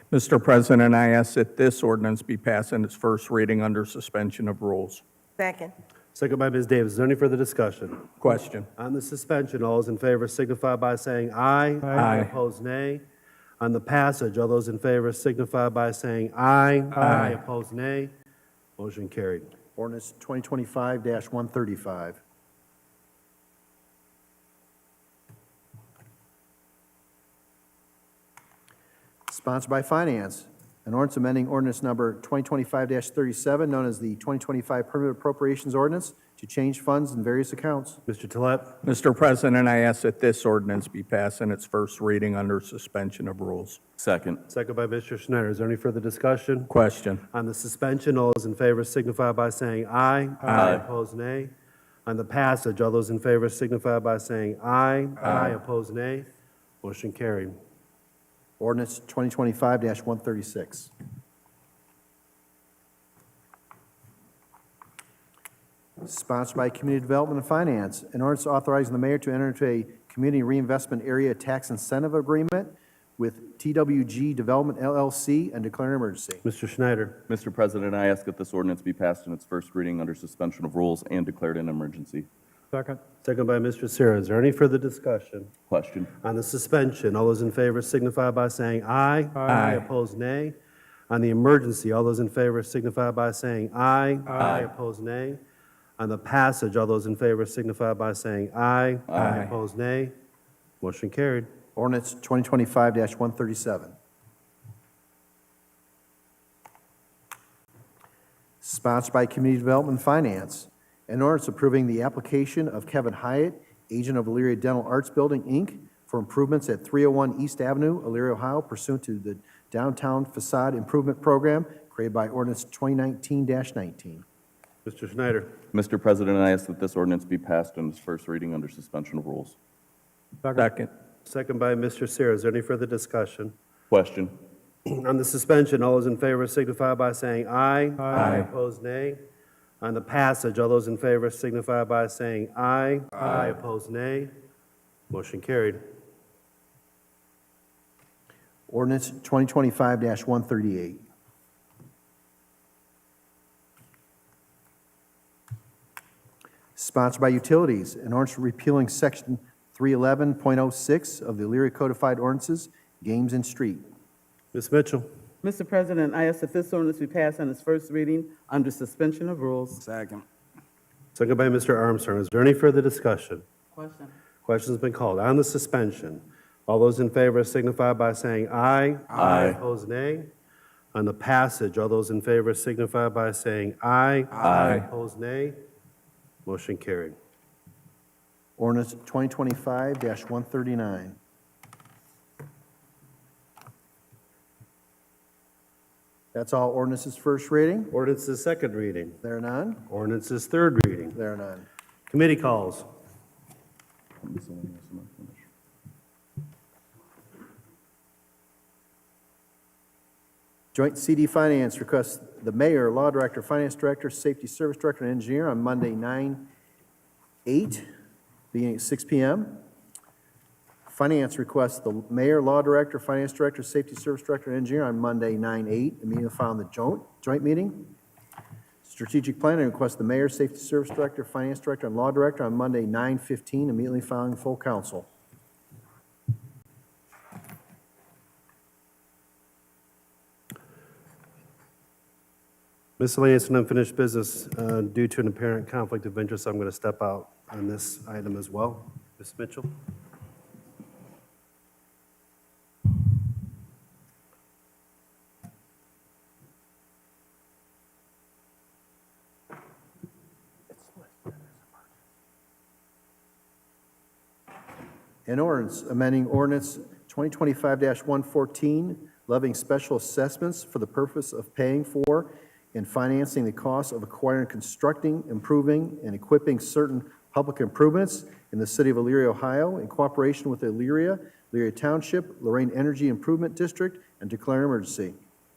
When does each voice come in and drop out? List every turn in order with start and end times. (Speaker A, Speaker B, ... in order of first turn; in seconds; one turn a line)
Speaker A: 0.1-5.0
Speaker B: 6.1-8.1
Speaker A: 8.2-8.7
Speaker B: 8.8-13.0
Speaker A: 12.0-12.3
Speaker B: 13.6-18.1
Speaker A: 17.0-17.4
Speaker B: 18.8-19.5
Speaker C: 19.8-22.2
Speaker C: 29.3-38.0
Speaker B: 38.0-38.8
Speaker A: 38.8-43.8
Speaker D: 44.0-44.4
Speaker B: 44.5-46.7
Speaker A: 46.7-47.2
Speaker B: 47.3-51.5
Speaker A: 50.5-50.8
Speaker D: 50.5-50.8
Speaker B: 52.0-56.3
Speaker B: 56.8-57.5
Speaker C: 58.6-60.9
Speaker C: 66.0-76.4
Speaker B: 76.4-77.2
Speaker D: 77.3-82.3
Speaker B: 83.1-85.5
Speaker D: 85.7-86.1
Speaker B: 86.2-90.5
Speaker A: 89.5-89.8
Speaker B: 91.1-95.4
Speaker D: 94.4-94.7
Speaker B: 96.0-100.1
Speaker D: 99.1-99.4
Speaker A: 99.2-99.5
Speaker B: 100.8-101.5
Speaker C: 101.8-103.9
Speaker C: 108.6-124.2
Speaker B: 124.8-125.5
Speaker D: 125.7-129.6
Speaker A: 130.5-130.9
Speaker B: 131.2-133.5
Speaker D: 133.9-134.4
Speaker B: 134.9-139.2
Speaker A: 138.1-138.5
Speaker B: 139.8-144.3
Speaker B: 145.1-145.8
Speaker C: 148.7-151.0
Speaker C: 156.8-163.8
Speaker B: 164.5-165.1
Speaker E: 165.4-169.8
Speaker B: 171.1-173.4
Speaker E: 173.7-174.1
Speaker B: 174.4-180.3
Speaker D: 179.2-179.6
Speaker B: 180.9-185.6
Speaker D: 184.4-184.8
Speaker B: 186.4-187.2
Speaker C: 188.6-191.2
Speaker C: 196.3-197.9
Speaker B: 197.9-199.2
Speaker C: 199.2-199.8
Speaker B: 199.9-201.2
Speaker C: 201.1-201.7
Speaker B: 202.1-202.9
Speaker D: 204.2-205.4
Speaker C: 210.7-216.5
Speaker C: 217.4-217.9
Speaker C: 218.5-219.6
Speaker C: 220.9-227.9
Speaker C: 228.8-235.1
Speaker B: 243.0-249.7
Speaker C: 265.2-285.1